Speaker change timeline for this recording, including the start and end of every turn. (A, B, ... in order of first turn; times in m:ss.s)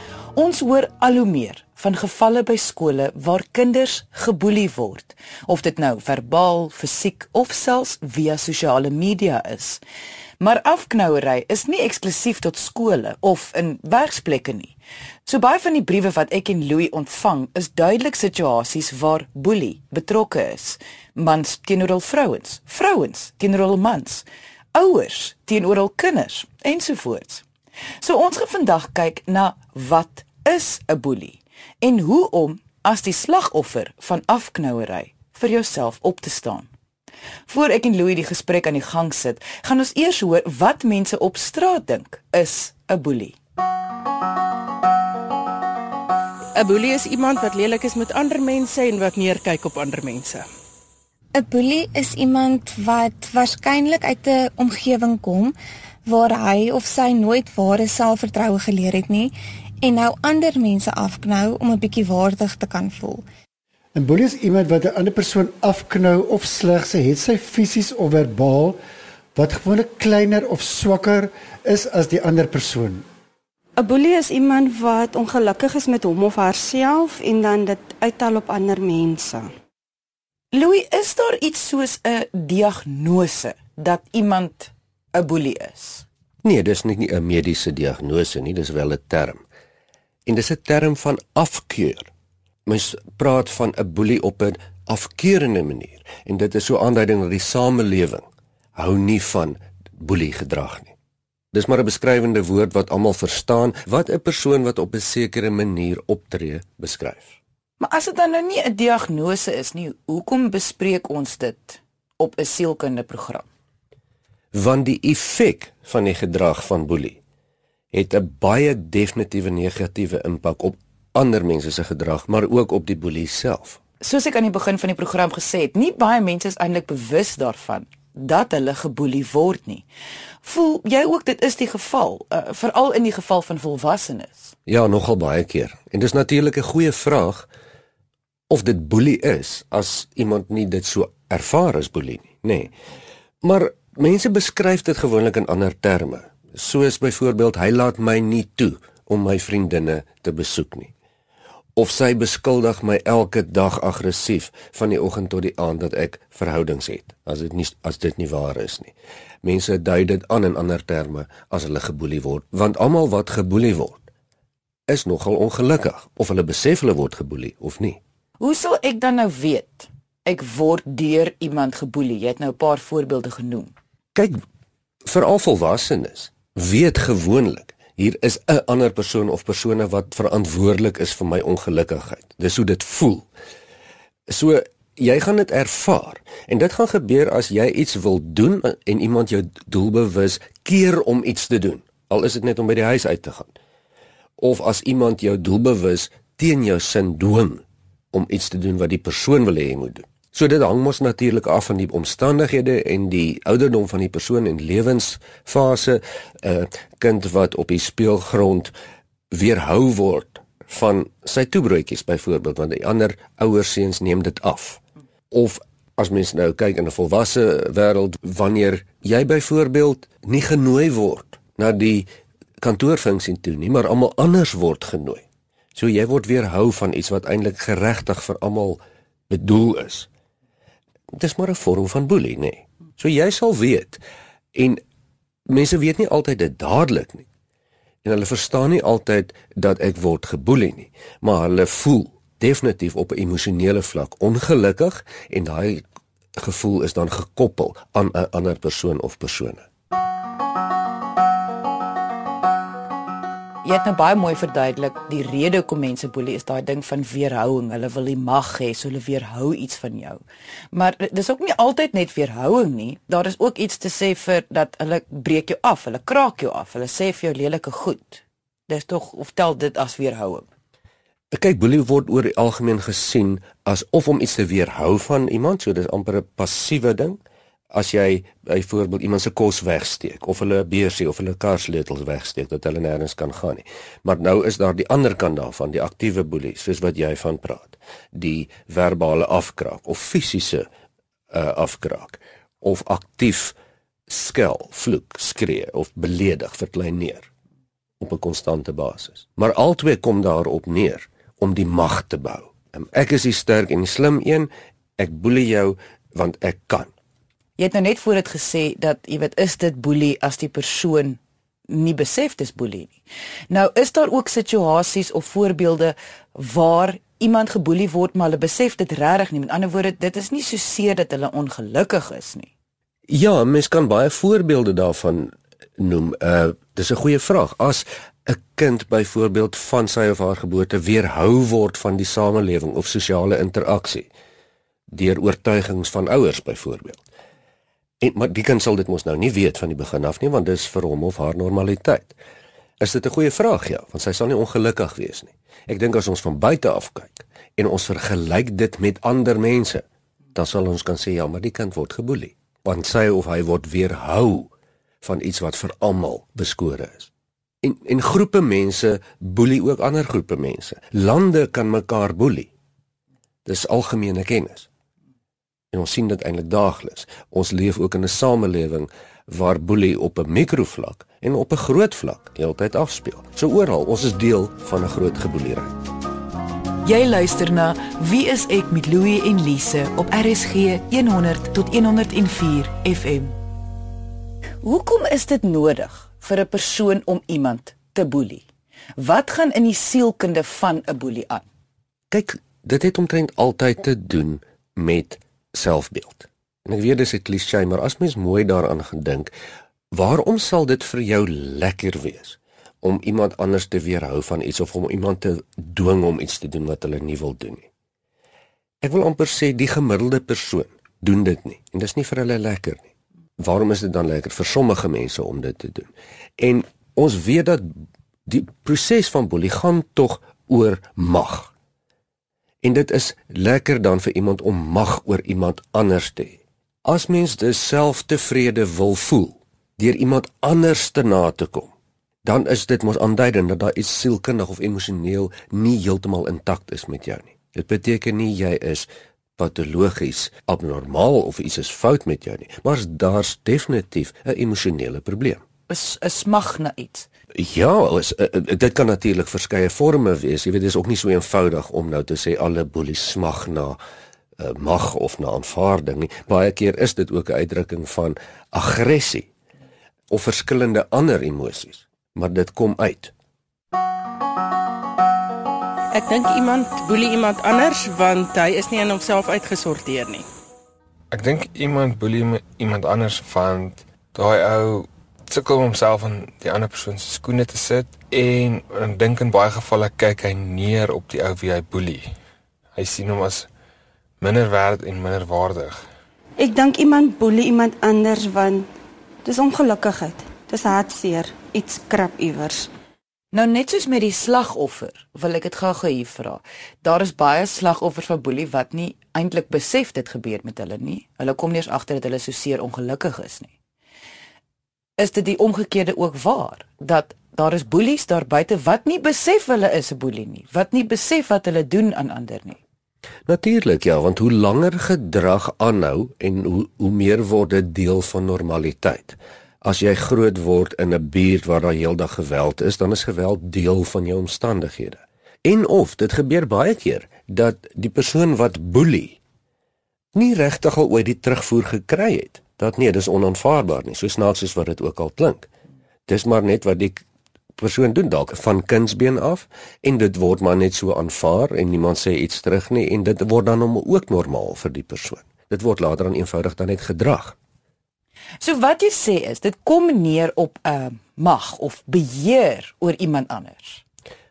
0:00.3-0:09.8 A
0:10.4-0:14.7 A
0:15.2-0:27.4 A
0:28.0-0:36.7 A
0:37.5-0:43.4 A
0:46.6-0:50.4 B
0:51.3-0:55.5 C
0:56.0-1:03.2 C
1:03.9-1:08.8 D
1:09.3-1:13.0 D
1:13.8-1:19.5 E
1:20.5-1:26.0 A
1:26.4-1:29.4 F
1:30.2-1:32.1 F
1:32.6-1:38.2 F
1:38.8-1:40.9 F
1:41.5-1:47.4 F
1:47.8-1:53.4 A
1:54.5-1:57.2 F
1:57.9-2:03.8 F
2:04.0-2:09.8 A
2:10.4-2:14.5 A
2:14.7-2:17.5 F
2:18.5-2:22.7 F
2:23.4-2:30.9 F
2:31.8-2:38.9 F
2:39.4-2:44.0 F
2:44.9-2:48.0 F
2:48.4-2:53.7 A
2:54.1-2:54.4 F
2:55.0-3:03.2 F
3:04.3-3:13.5 F
3:14.4-3:28.7 F
3:29.3-3:42.1 F
3:42.6-3:45.2 F
3:45.7-3:50.1 F
3:51.1-3:54.0 F
3:54.5-3:54.8 F
3:55.5-3:57.2 F
3:58.0-4:05.8 F
4:06.4-4:09.6 F
4:13.6-4:20.2 A
4:20.7-4:30.5 A
4:31.3-4:37.2 F
4:37.7-4:50.6 F
4:51.3-4:53.5 F
4:54.1-4:57.3 F
4:58.0-5:06.9 F
5:07.6-5:22.5 A
5:23.1-5:34.1 F
5:34.9-5:37.0 F
5:38.0-5:42.2 F
5:42.8-5:49.8 F
5:50.3-5:54.5 F
5:55.0-5:57.1 F
5:57.6-6:02.5 F
6:03.4-6:04.7 F
6:05.7-6:15.7 F
6:16.8-6:23.3 A
6:24.6-6:28.4 A
6:29.0-6:31.5 A
6:32.1-6:39.3 F
6:39.9-6:47.6 F
6:48.8-6:52.9 F
6:53.4-6:57.7 F
6:58.2-7:01.5 F
7:02.6-7:11.7 F
7:12.2-7:25.4 F
7:25.7-7:27.1 A
7:27.3-7:33.8 F
7:34.4-7:39.3 F
7:40.1-7:43.1 F
7:45.9-7:50.2 B
7:51.1-8:02.1 G
8:02.7-8:03.5 G
8:04.2-8:05.8 G
8:06.4-8:08.7 E
8:09.2-8:12.7 E
8:13.3-8:23.5 A
8:25.0-8:32.6 A
8:33.3-8:49.2 F
8:50.1-8:55.5 F
8:56.1-8:57.0 F
8:57.6-9:07.4 F
9:08.4-9:13.8 A